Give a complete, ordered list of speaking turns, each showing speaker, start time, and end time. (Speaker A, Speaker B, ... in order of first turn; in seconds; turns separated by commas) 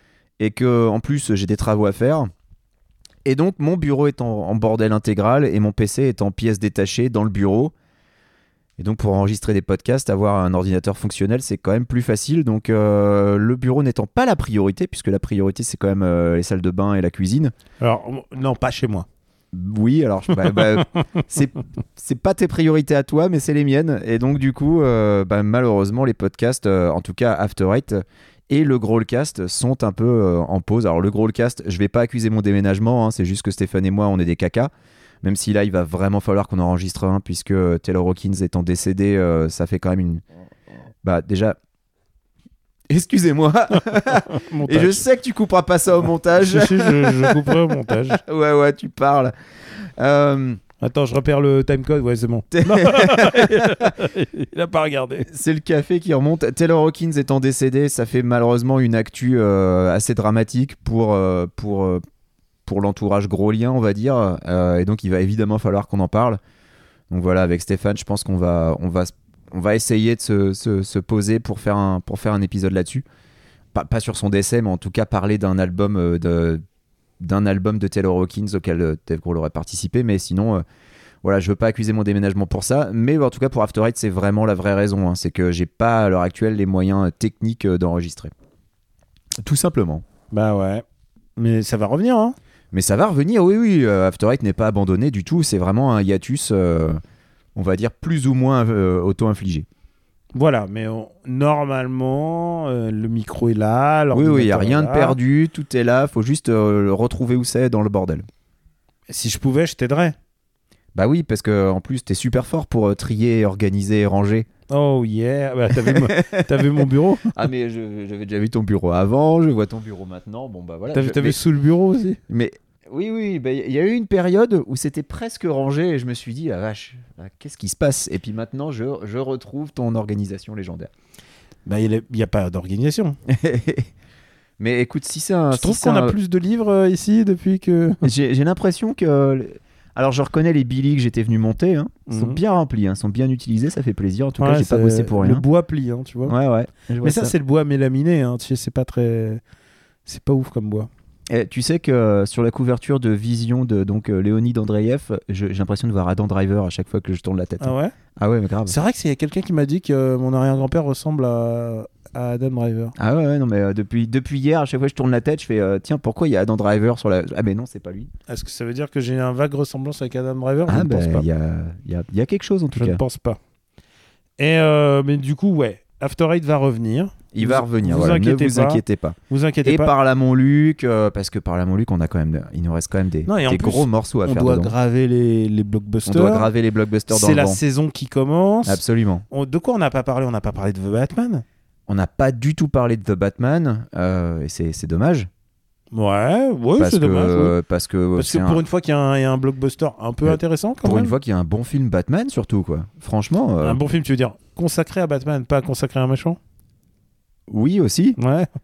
Speaker A: 0.4-2.3, Speaker A: 3.2-7.7, Speaker A: 8.8-17.5, Speaker B: 17.8-19.1, Speaker A: 19.5-34.7, Speaker B: 20.4-20.9, Speaker A: 35.2-40.2, Speaker A: 41.0-41.6, Speaker A: 42.9-50.6, Speaker B: 43.9-45.0, Speaker B: 46.4-48.2, Speaker B: 50.8-55.3, Speaker A: 52.5-53.9, Speaker A: 55.3-62.0, Speaker A: 62.7-66.4, Speaker A: 67.1-73.0, Speaker A: 73.7-76.6, Speaker A: 77.2-80.7, Speaker A: 81.2-88.3, Speaker A: 89.4-90.0, Speaker B: 90.3-90.8, Speaker B: 91.4-92.4, Speaker A: 92.7-97.0, Speaker A: 97.5-99.7, Speaker B: 100.3-105.2, Speaker A: 104.1-108.3, Speaker B: 109.1-110.2, Speaker A: 111.0-114.5, Speaker B: 114.7-117.3, Speaker A: 115.8-121.4, Speaker B: 120.9-122.2, Speaker A: 122.3-130.9, Speaker B: 131.7-133.2, Speaker A: 133.3-133.9, Speaker A: 134.6-136.2, Speaker B: 135.5-138.1, Speaker A: 138.0-145.4, Speaker B: 142.1-142.4, Speaker B: 144.4-146.3, Speaker A: 146.3-147.3, Speaker B: 147.0-149.4, Speaker B: 150.1-150.9, Speaker A: 151.3-158.8, Speaker B: 157.6-157.9, Speaker B: 158.7-163.0, Speaker A: 163.0-168.1, Speaker B: 168.3-171.3, Speaker A: 170.7-173.0, Speaker B: 172.8-173.4, Speaker B: 174.4-179.9, Speaker A: 177.3-184.7, Speaker B: 183.3-186.5, Speaker A: 186.1-187.6, Speaker B: 187.1-191.4, Speaker A: 188.7-189.2, Speaker A: 191.9-195.3, Speaker B: 195.9-197.6, Speaker A: 196.8-198.6, Speaker B: 198.2-201.2, Speaker A: 200.3-203.8, Speaker B: 203.6-206.4, Speaker A: 207.5-208.2, Speaker B: 208.2-208.5